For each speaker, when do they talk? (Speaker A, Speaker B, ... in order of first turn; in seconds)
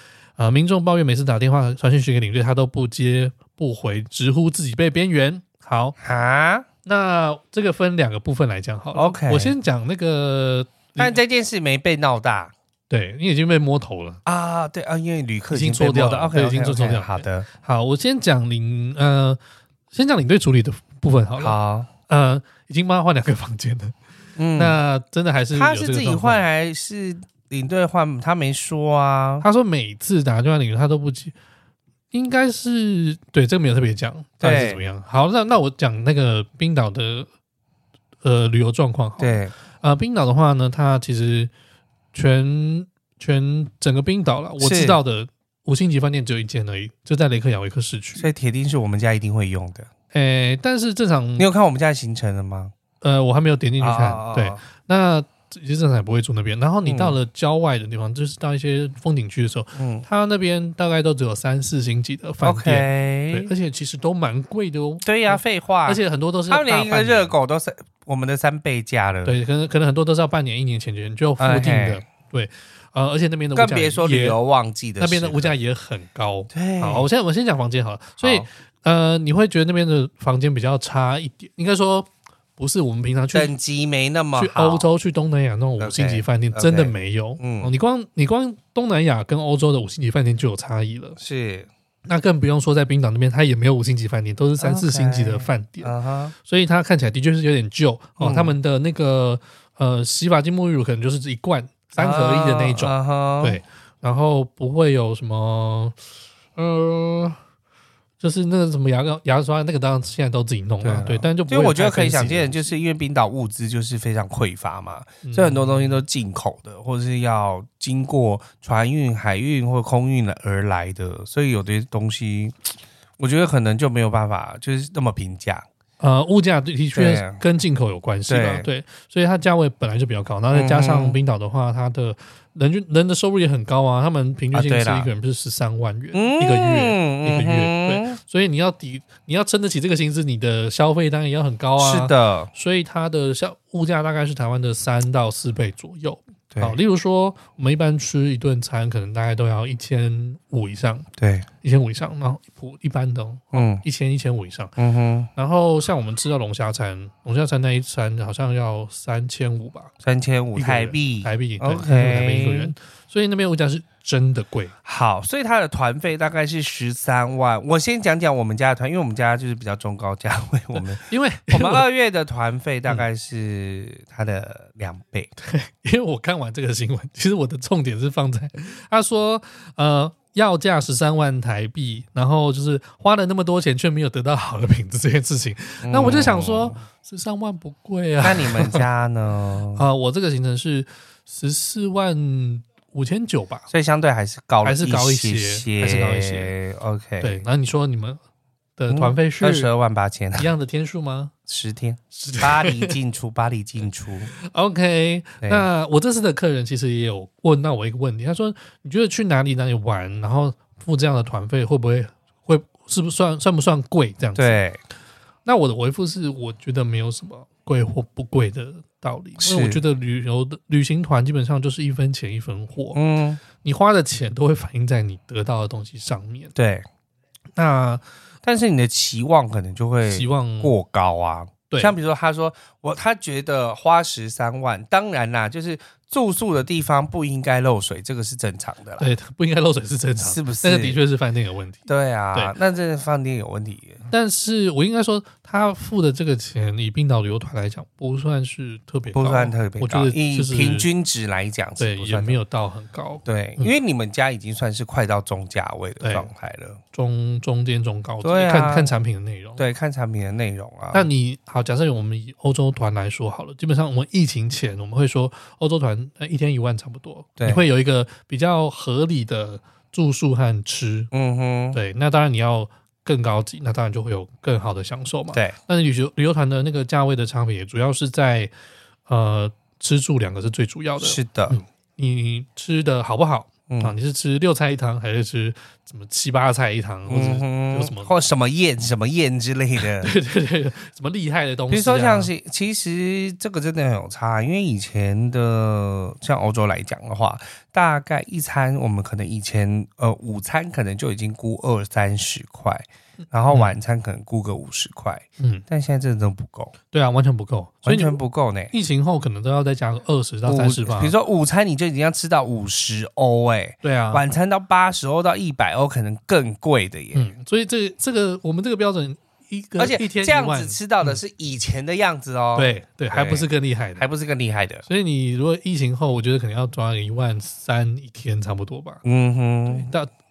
Speaker A: 0.4-6.0, 6.8-11.2, 12.9-14.2, 15.5-19.4, 19.9-21.6, 22.1-24.0, 24.6-26.5, 29.4-31.3, 32.1-37.3, 38.2-41.5, 42.1-48.3, 50.1-51.5, 53.0-67.4, 69.2-74.4, 75.0-83.5, 84.3-91.2, 92.1-106.0, 106.6-107.4, 108.2-112.7, 115.2-116.0, 126.0-151.1, 151.6-154.7, 155.3-159.9, 160.6-164.7, 170.7-171.8, 175.4-188.9, 189.7-193.7, 194.6-196.6, 197.2-198.2, 198.8-199.7, 200.3-201.3, 202.1-203.0, 204.3-214.6, 215.4-223.0, 223.6-226.5, 227.6-228.1, 230.1-230.8, 239.0-242.6, 244.1-250.9, 251.8-253.7, 256.0-256.3, 256.9-259.6, 260.9-271.1, 271.7-278.5, 279.1-288.1, 289.8-292.3, 303.5-303.8, 305.4-305.6, 306.9-308.2, 308.7-311.1, 313.8-314.2, 317.1-321.2, 322.6-324.1, 324.8-329.0, 329.7-330.1
Speaker B: 6.0-6.7, 8.9-9.6, 11.0-12.5, 14.2-17.5, 21.4-21.9, 24.4-24.8, 25.5-29.5, 34.4-34.8, 39.2-39.5, 44.6-45.0, 48.1-49.9, 51.4-52.7, 53.8-54.6, 56.9-57.2, 59.7-60.1, 62.4-63.5, 65.0-69.4, 71.4-72.0, 73.5-75.6, 76.5-77.1, 78.2-78.5, 83.3-84.9, 85.8-87.7, 91.2-91.7, 94.6-96.3, 98.2-98.6, 102.0-103.6, 110.8-122.7, 123.2-125.7, 126.9-127.4, 128.3-128.7, 130.5-131.2, 134.5-135.1, 136.1-138.2, 141.8-142.5, 146.5-146.8, 151.2-151.5, 153.5-153.8, 154.8-155.3, 160.0-162.7, 164.8-175.3, 185.8-186.8, 188.2-189.9, 193.7-197.4, 198.9-200.5, 201.5-204.3, 205.4-205.7, 214.4-214.8, 219.4-219.8, 222.9-223.4, 226.6-226.8, 228.4-239.1, 240.2-241.0, 241.9-244.0, 249.1-252.4, 253.2-256.8, 258.2-258.9, 259.6-261.1, 267.4-267.7, 271.1-271.8, 281.0-281.6, 283.7-284.0, 287.1-290.1, 291.7-306.7, 307.8-308.7, 310.4-317.3, 319.8-324.9, 329.0-329.9